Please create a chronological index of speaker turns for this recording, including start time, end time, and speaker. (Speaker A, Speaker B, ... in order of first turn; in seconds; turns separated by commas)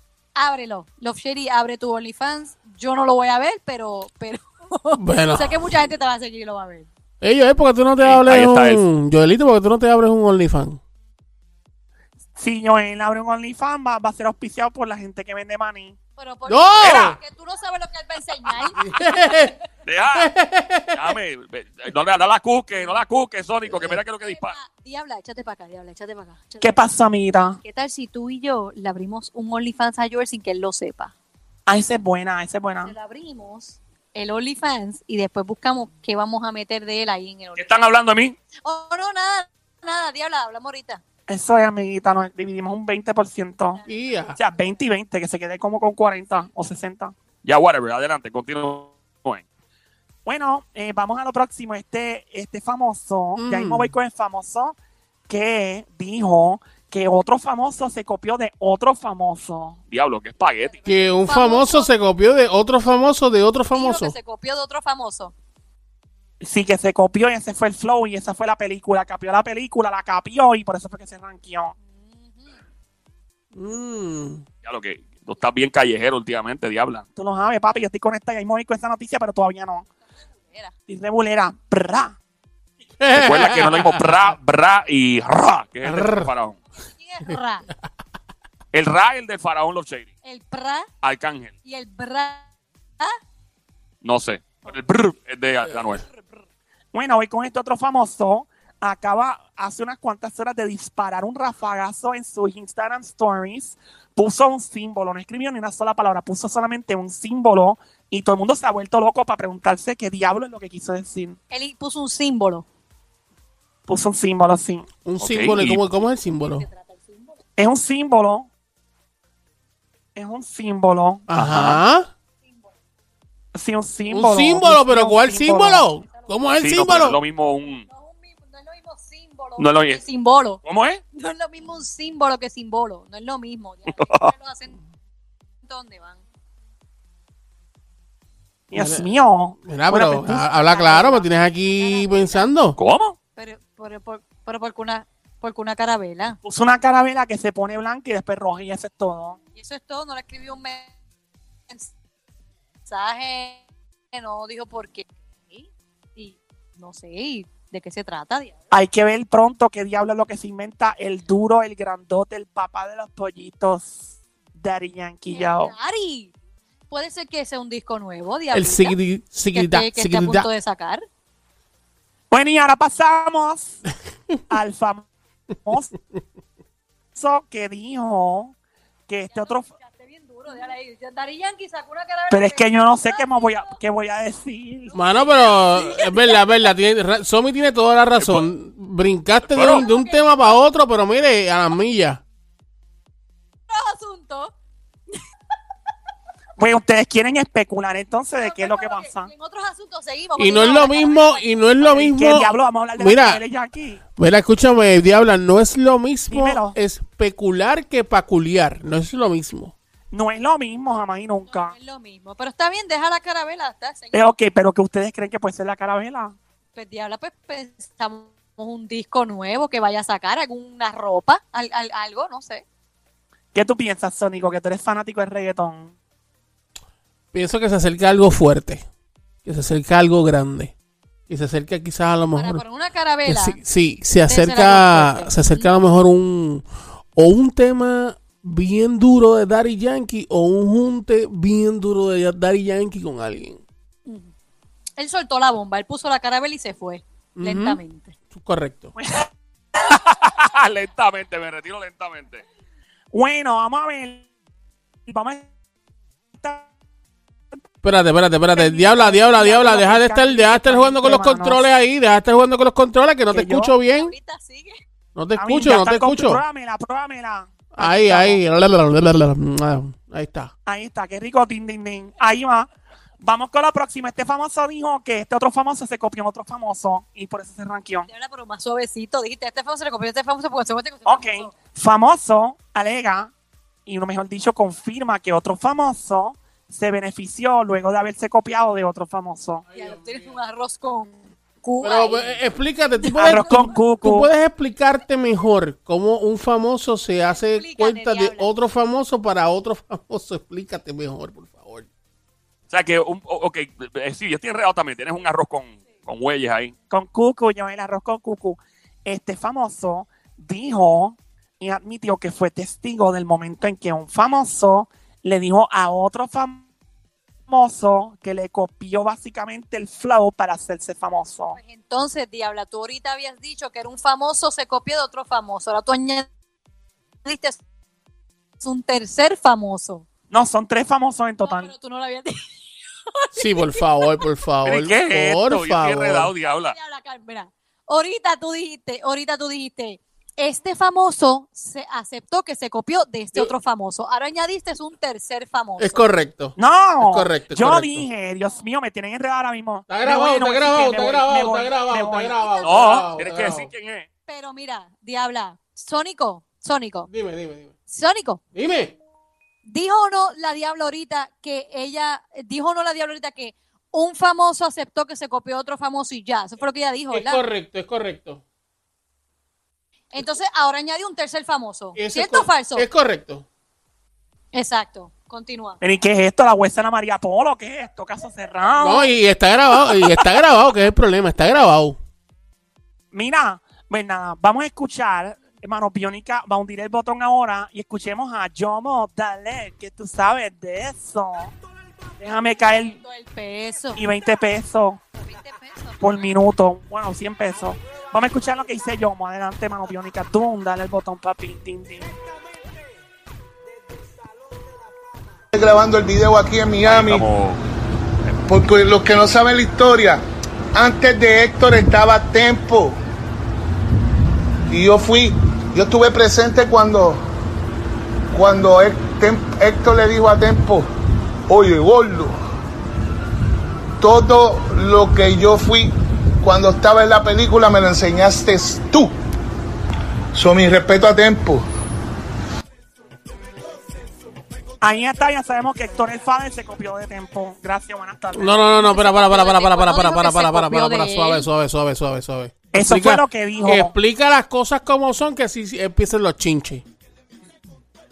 Speaker A: 0.3-6.9, Speaker B: 5.0-5.7, Speaker B: 7.2-10.8, Speaker C: 8.0-8.8, Speaker D: 12.3-16.0, Speaker A: 16.2-19.6, Speaker B: 16.5-17.2, Speaker C: 16.8-17.1, Speaker B: 18.8-19.6, Speaker C: 19.9-20.3, Speaker B: 20.1-21.1, Speaker C: 20.9-24.6, Speaker B: 23.7-24.0, Speaker A: 24.2-26.8, Speaker D: 26.6-27.6, Speaker A: 27.6-31.1, Speaker D: 31.7-32.9, Speaker A: 32.8-37.8, Speaker C: 37.5-38.4, Speaker A: 38.6-41.0, Speaker D: 41.3-43.8, Speaker A: 43.7-44.2, Speaker B: 43.9-44.4, Speaker D: 44.4-47.1, Speaker C: 47.4-49.4, Speaker D: 50.2-54.7, Speaker B: 53.4-53.9, Speaker D: 55.3-59.8, Speaker C: 59.9-60.8, Speaker A: 60.6-61.9, Speaker B: 60.9-64.1, Speaker A: 63.7-65.3, Speaker D: 66.4-71.7, Speaker A: 71.8-72.5, Speaker B: 73.5-74.4, Speaker C: 74.6-77.0, Speaker D: 77.2-79.8, Speaker A: 80.4-80.7, Speaker D: 80.9-82.1, Speaker B: 83.0-84.2, Speaker C: 83.1-86.6, Speaker B: 85.8-86.3, Speaker A: 86.8-87.7, Speaker C: 88.7-90.1, Speaker A: 90.2-90.9, Speaker C: 91.0-91.5, Speaker A: 91.6-92.5, Speaker C: 94.0-96.0, Speaker D: 96.9-111.4, Speaker A: 111.5-112.6, Speaker D: 113.9-114.9, Speaker B: 115.0-116.7, Speaker C: 115.2-115.8, Speaker A: 116.4-117.3, Speaker D: 117.6-118.5, Speaker D: 120.2-121.3, Speaker B: 121.3-122.1, Speaker C: 121.3-121.8, Speaker D: 123.5-125.8, Speaker B: 124.1-127.2, Speaker A: 126.1-126.5, Speaker C: 126.6-127.8, Speaker A: 127.9-130.6, Speaker C: 129.6-130.0, Speaker C: 130.6-131.0, Speaker A: 131.1-134.8, Speaker C: 133.9-134.3, Speaker A: 135.6-136.2, Speaker D: 138.7-140.5, Speaker B: 138.7-139.1, Speaker B: 139.6-142.8, Speaker A: 140.3-142.5, Speaker C: 142.8-143.2, Speaker A: 143.3-146.4, Speaker D: 146.4-149.4, Speaker A: 149.5-150.9, Speaker A: 152.9-158.6, Speaker D: 158.7-165.7, Speaker A: 165.3-166.3, Speaker A: 166.9-168.9, Speaker B: 168.5-170.5, Speaker A: 169.5-171.0, Speaker D: 172.3-173.8, Speaker D: 174.5-175.1, Speaker D: 175.7-175.9, Speaker D: 177.1-178.5, Speaker D: 179.1-179.7, Speaker A: 179.3-183.8, Speaker D: 182.3-184.9, Speaker A: 184.9-186.7, Speaker B: 184.9-192.2, Speaker C: 188.2-188.4, Speaker C: 189.5-189.8, Speaker A: 189.6-190.6, Speaker A: 193.7-194.5, Speaker D: 196.6-199.3, Speaker A: 198.4-202.1, Speaker B: 200.4-203.4, Speaker D: 201.8-204.0, Speaker B: 204.2-209.7, Speaker D: 206.3-206.8, Speaker D: 210.1-211.7, Speaker A: 211.5-214.3, Speaker D: 214.1-216.3, Speaker A: 216.7-222.6, Speaker D: 223.5-225.9, Speaker B: 227.3-228.8, Speaker B: 229.4-230.7, Speaker B: 231.3-232.6, Speaker A: 232.3-233.6, Speaker B: 233.3-243.6, Speaker A: 234.2-235.7, Speaker A: 244.1-244.3, Speaker A: 245.0-248.1, Speaker B: 247.3-247.8, Speaker B: 248.3-248.9, Speaker D: 249.0-249.3, Speaker C: 249.8-252.4, Speaker D: 253.1-254.3, Speaker D: 255.1-255.5, Speaker D: 256.4-256.7, Speaker B: 257.8-264.1, Speaker D: 258.5-261.6, Speaker D: 263.3-263.7, Speaker A: 263.9-264.7, Speaker B: 265.1-266.4, Speaker D: 265.4-268.4, Speaker B: 267.7-270.5, Speaker D: 270.6-272.7, Speaker D: 273.2-278.1, Speaker A: 278.1-281.5, Speaker D: 281.1-283.3, Speaker D: 283.9-289.6, Speaker B: 289.7-290.3, Speaker A: 289.7-292.4, Speaker B: 291.8-301.9, Speaker A: 293.0-293.7, Speaker D: 293.2-294.3, Speaker A: 297.3-298.5, Speaker C: 302.7-306.7, Speaker D: 306.9-316.7, Speaker D: 317.5-321.6, Speaker A: 321.5-326.3, Speaker A: 327.2-327.6, Speaker A: 328.6-330.0, Speaker D: 330.3-331.7, Speaker A: 331.4-332.5, Speaker A: 333.1-334.2, Speaker B: 333.3-336.3, Speaker C: 334.6-336.8, Speaker A: 336.6-346.0, Speaker B: 345.8-348.0, Speaker D: 346.6-352.4, Speaker B: 349.9-353.7, Speaker A: 352.3-353.1, Speaker C: 352.6-354.1, Speaker A: 354.3-357.1, Speaker B: 357.1-357.7, Speaker A: 357.9-358.4, Speaker B: 358.5-358.9, Speaker A: 359.6-367.4, Speaker B: 367.1-368.4, Speaker A: 370.1-372.9, Speaker B: 371.9-373.4, Speaker A: 374.5-375.8, Speaker D: 375.8-379.1, Speaker B: 378.8-382.0, Speaker D: 379.7-380.3, Speaker D: 383.1-391.5, Speaker D: 392.2-393.0, Speaker A: 392.7-394.0, Speaker D: 393.9-395.0, Speaker A: 395.2-396.0, Speaker D: 396.0-402.1, Speaker E: 405.5-407.2, Speaker C: 406.9-407.6, Speaker E: 408.5-413.0, Speaker E: 414.7-417.3, Speaker E: 418.3-420.9, Speaker E: 421.5-422.4, Speaker E: 424.0-429.1, Speaker E: 430.3-431.6, Speaker D: 434.8-438.6, Speaker B: 438.3-446.8, Speaker A: 438.6-441.5, Speaker D: 442.7-443.9